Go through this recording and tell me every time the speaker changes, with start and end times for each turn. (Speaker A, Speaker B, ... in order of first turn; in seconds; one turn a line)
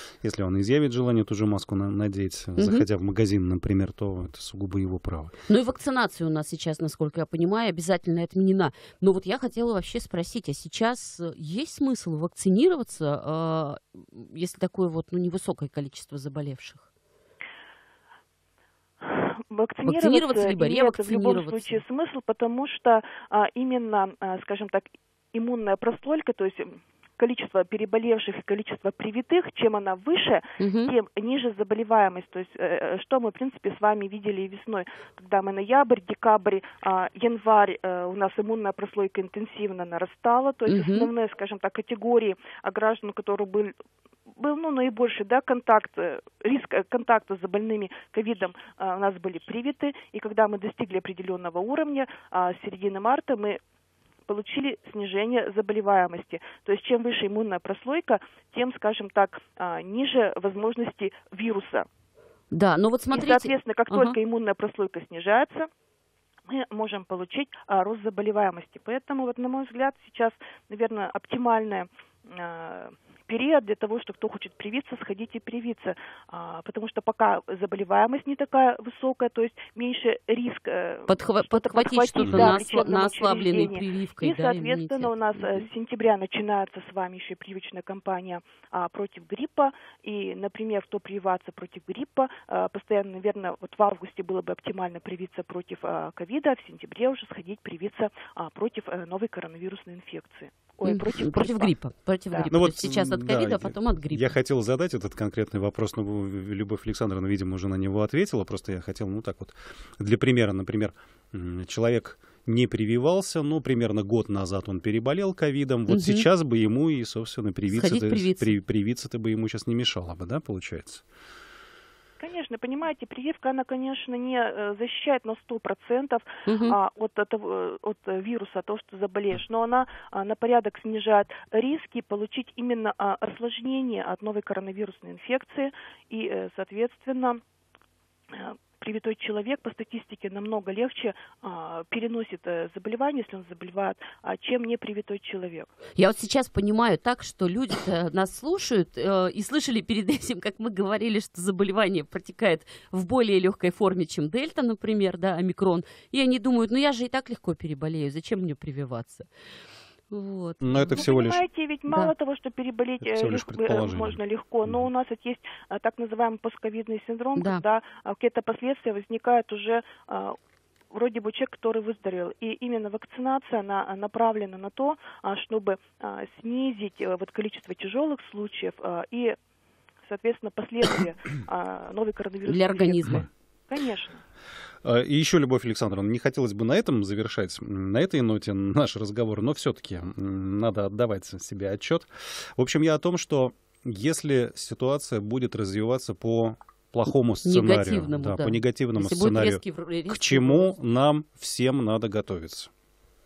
Speaker A: 0.2-5.3
Speaker B: 2.6-2.8
Speaker B: 5.5-16.8
Speaker C: 19.0-43.7
Speaker B: 19.9-21.8
Speaker B: 30.6-30.9
Speaker B: 40.7-41.1
Speaker C: 44.3-53.6
Speaker C: 54.3-61.9
Speaker B: 62.5-64.2
Speaker C: 63.1-65.7
Speaker C: 66.5-101.7
Speaker B: 81.1-85.7
Speaker A: 82.2-82.6
Speaker B: 100.8-104.3
Speaker A: 102.5-121.0
Speaker B: 115.9-116.2
Speaker B: 117.7-118.5
Speaker C: 122.2-137.4
Speaker B: 126.5-126.8
Speaker C: 138.3-145.7
Speaker B: 146.0-159.3
Speaker B: 160.1-161.0
Speaker A: 160.6-161.4
Speaker C: 161.0-170.3
Speaker A: 163.0-164.8
Speaker B: 167.3-167.6
Speaker C: 170.9-179.4
Speaker C: 180.0-184.2
Speaker B: 182.4-183.2
Speaker A: 184.8-202.7
Speaker B: 197.4-200.7